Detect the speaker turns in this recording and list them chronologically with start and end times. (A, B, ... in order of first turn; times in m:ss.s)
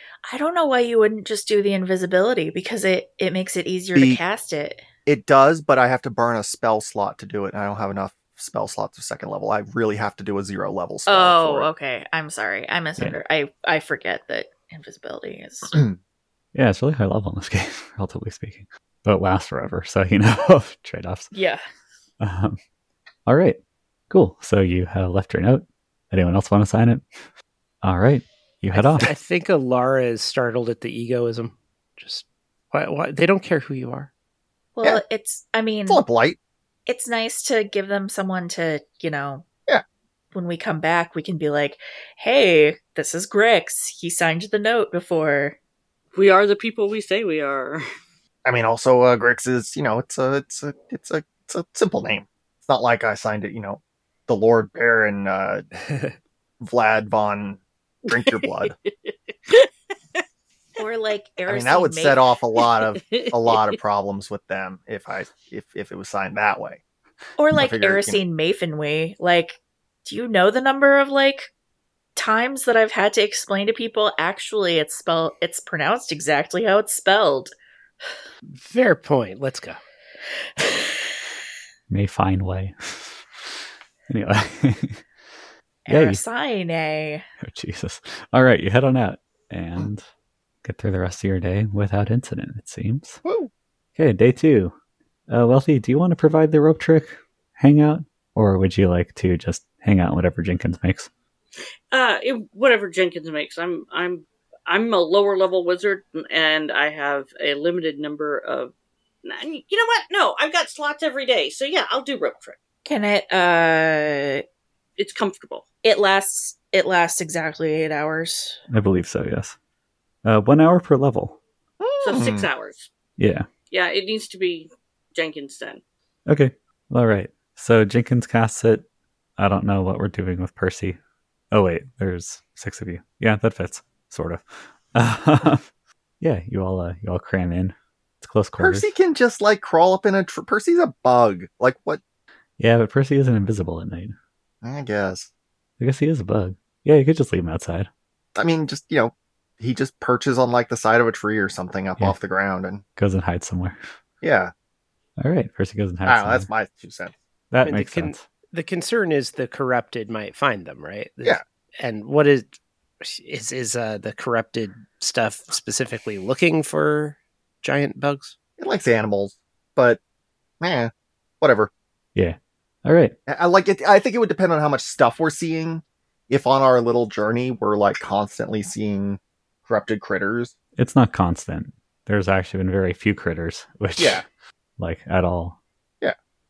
0:00.3-0:04.8 A
0:04.0-0:04.2 B
0:05.1-0:11.7 B
0:11.1-0:15.8 A
0:15.7-0:16.0 B
0:16.6-0:21.3 C
0:21.3-0:21.6 A
0:22.2-0:22.6 C
0:23.3-0:23.6 C
0:24.1-0:27.0 C
0:27.8-0:29.1 C
0:28.7-0:34.1 D
0:34.8-0:36.0 A
0:35.9-0:36.4 B
0:36.9-0:39.4 A
0:40.3-0:45.6 A
0:46.2-0:47.8 E
0:48.4-0:55.6 B
0:55.9-0:56.1 D
0:56.6-0:58.8 B
0:58.1-1:00.2 E
1:00.8-1:02.2 A
1:01.5-1:06.8 B
1:02.9-1:03.7 E
1:07.4-1:11.5 A
1:07.5-1:08.2 B
1:12.2-1:17.5 A
1:18.5-1:19.8 D
1:21.9-1:23.5 C
1:24.1-1:25.0 C
1:25.9-1:27.2 A
1:25.9-1:26.2 C
1:27.4-1:30.0 C
1:30.6-1:33.2 C
1:33.2-1:33.5 B
1:34.0-1:34.7 C
1:35.3-1:41.1 C
1:41.9-1:48.7 E
1:49.2-1:52.6 E
1:52.9-1:54.4 A
1:55.0-1:55.6 E
1:55.8-1:58.6 A
1:58.7-1:59.6 C
2:00.2-2:01.4 C
2:01.8-2:02.5 B
2:02.0-2:02.9 E
2:03.2-2:03.5 C
2:03.7-2:05.8 E
2:06.3-2:08.8 C
2:09.4-2:11.0 C
2:11.5-2:15.6 C
2:16.2-2:18.9 C
2:18.6-2:22.0 B
2:22.6-2:24.2 C
2:24.6-2:25.3 B
2:25.8-2:27.9 C
2:28.4-2:32.8 B
2:33.0-2:33.8 C
2:34.2-2:34.5 B
2:35.2-2:36.5 C
2:36.1-2:37.1 B
2:37.5-2:38.2 C
2:37.6-2:48.4 D
2:48.6-2:50.0 B
2:50.6-2:51.7 B
2:52.2-2:53.1 C
2:53.3-3:00.5 B
3:00.8-3:04.2 C
3:04.0-3:04.2 B
3:04.8-3:05.6 C